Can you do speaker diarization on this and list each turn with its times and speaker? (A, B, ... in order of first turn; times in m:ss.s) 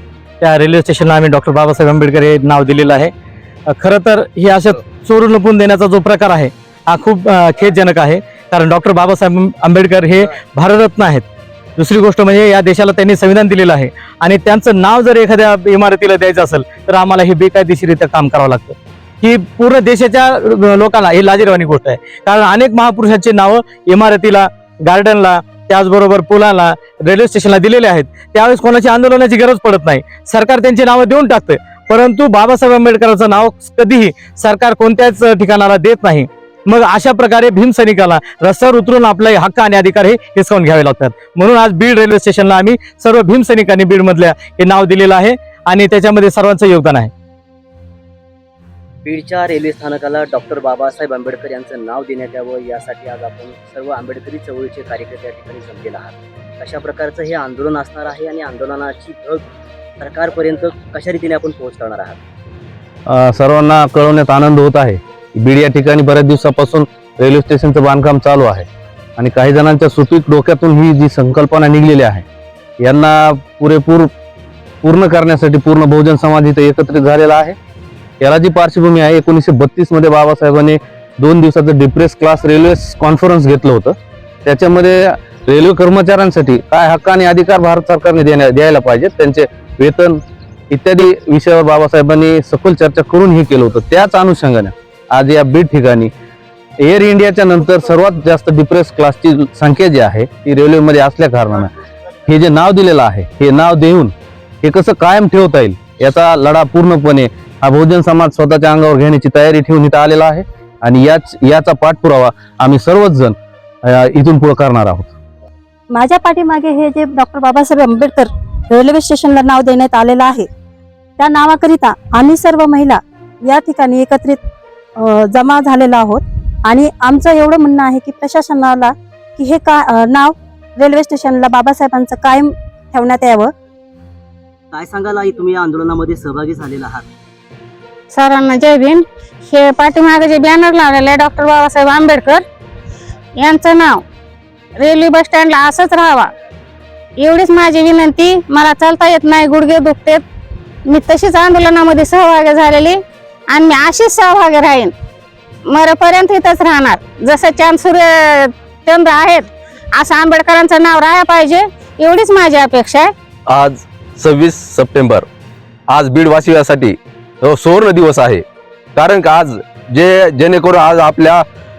0:00.4-0:03.1 A
0:03.7-0:11.2 A
0:11.8-0:47.1 A
0:49.0-0:59.4 B
1:00.0-1:02.2 B
1:03.1-1:12.2 C
1:12.8-1:14.1 C
1:14.8-1:17.6 C
1:18.2-1:36.1 C
1:36.8-1:41.7 C
1:42.2-1:55.1 C
1:55.9-2:00.5 D
2:01.2-2:04.4 D
2:05.0-2:13.5 D
2:14.7-2:17.1 B
2:18.1-2:22.4 E
2:23.4-2:24.0 E
2:24.8-2:26.3 E
2:27.2-2:30.2 E
2:30.9-2:34.9 E
2:35.7-2:43.1 E
2:43.5-2:45.2 F
2:45.9-2:48.4 F
2:49.0-2:51.4 F